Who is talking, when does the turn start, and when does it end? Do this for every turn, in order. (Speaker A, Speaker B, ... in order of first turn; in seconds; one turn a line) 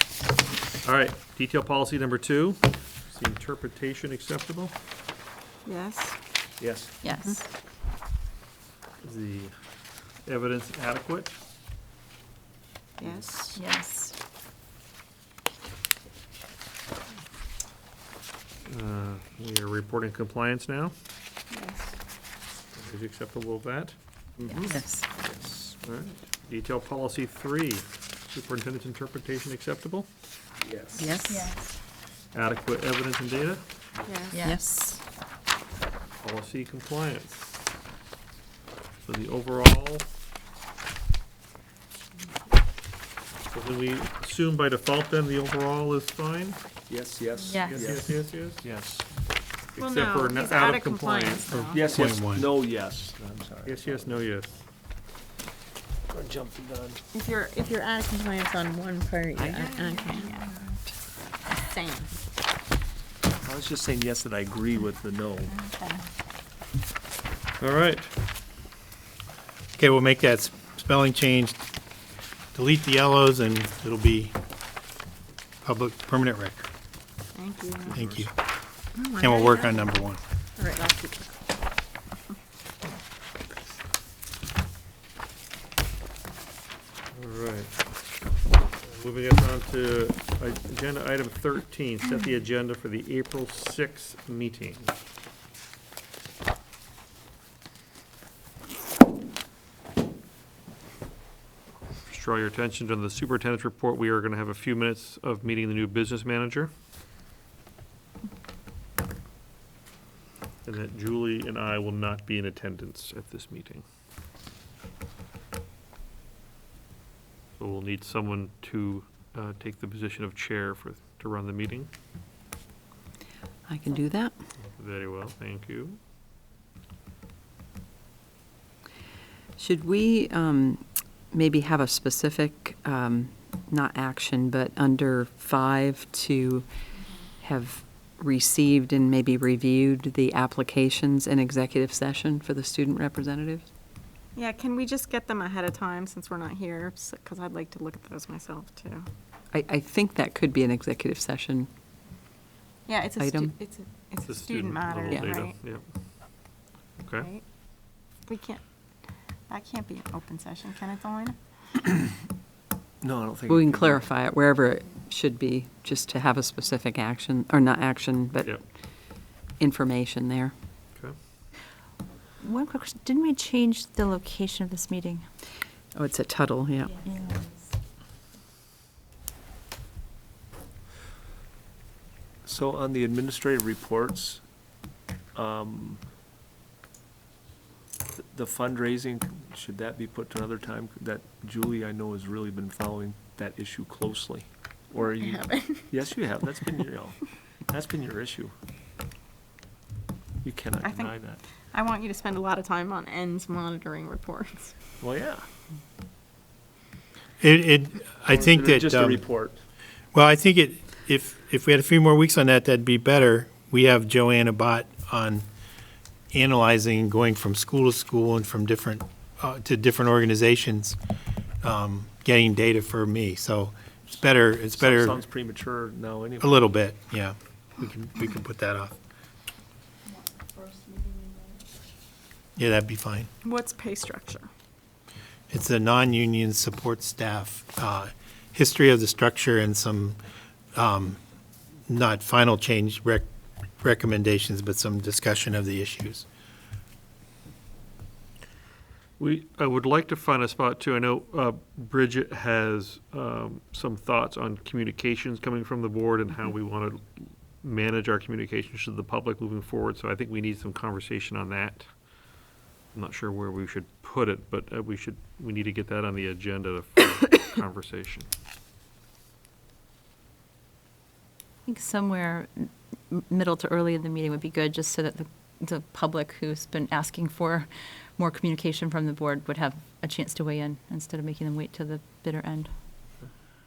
Speaker A: 0.8-4.8
Speaker B: 5.7-6.2
Speaker C: 6.6-7.0
Speaker D: 7.0-7.5
Speaker A: 9.0-9.5
Speaker A: 10.3-11.3
Speaker B: 13.0-13.2
Speaker C: 13.0-13.6
Speaker D: 13.6-14.2
Speaker A: 18.7-20.9
Speaker B: 21.5-22.0
Speaker A: 22.7-24.7
Speaker D: 24.4-24.7
Speaker C: 24.5-25.8
Speaker E: 24.7-25.1
Speaker A: 25.8-30.1
Speaker C: 30.6-31.2
Speaker E: 31.0-31.5
Speaker D: 31.3-31.6
Speaker A: 32.3-33.6
Speaker B: 34.1-34.4
Speaker D: 34.3-34.6
Speaker E: 34.4-35.0
Speaker A: 36.2-37.5
Speaker A: 39.0-40.1
Speaker A: 43.5-46.6
Speaker C: 46.9-49.1
Speaker D: 47.5-47.9
Speaker A: 47.6-48.6
Speaker A: 49.8-51.8
Speaker B: 49.8-52.0
Speaker C: 51.7-54.3
Speaker F: 51.8-52.5
Speaker A: 53.6-54.6
Speaker C: 56.1-57.0
Speaker B: 57.1-60.6
Speaker E: 59.4-59.7
Speaker B: 61.5-62.1
Speaker C: 63.4-65.5
Speaker B: 65.5-66.0
Speaker A: 67.6-68.1
Speaker F: 69.8-71.6
Speaker F: 72.5-74.3
Speaker F: 75.6-76.7
Speaker B: 77.3-78.0
Speaker C: 77.9-78.3
Speaker F: 77.9-78.3
Speaker B: 79.0-80.0
Speaker F: 79.2-80.2
Speaker B: 80.6-81.4
Speaker A: 87.1-87.7
Speaker A: 88.8-94.9
Speaker A: 102.1-106.7
Speaker A: 110.7-113.8
Speaker A: 117.6-121.9
Speaker E: 123.7-124.3
Speaker A: 124.6-126.0
Speaker E: 129.6-136.7
Speaker E: 137.4-143.7
Speaker B: 144.3-149.1
Speaker E: 149.5-151.7
Speaker B: 152.9-155.6
Speaker E: 153.2-153.6
Speaker A: 154.2-156.4
Speaker E: 155.1-155.4
Speaker A: 157.0-157.3
Speaker B: 157.2-157.4
Speaker B: 158.2-161.4
Speaker C: 163.0-164.1
Speaker E: 163.5-170.5
Speaker D: 172.4-175.3
Speaker E: 175.9-177.0
Speaker D: 177.0-177.6
Speaker C: 182.4-184.4
Speaker C: 185.3-186.0
Speaker C: 188.1-198.5
Speaker B: 194.9-195.9
Speaker C: 200.4-201.4
Speaker B: 200.8-204.8
Speaker C: 205.0-205.5
Speaker F: 207.4-209.2
Speaker C: 208.3-209.6
Speaker F: 210.1-215.4
Speaker F: 216.3-221.0
Speaker F: 221.6-225.2
Speaker C: 224.8-226.7
Speaker F: 226.4-229.0
Speaker F: 232.6-233.3
Speaker B: 233.4-234.5
Speaker F: 235.5-240.2
Speaker F: 240.8-241.2
Speaker F: 241.9-243.2
Speaker F: 243.8-246.3
Speaker A: 249.2-262.3
Speaker A: 262.9-268.3
Speaker D: 271.7-282.7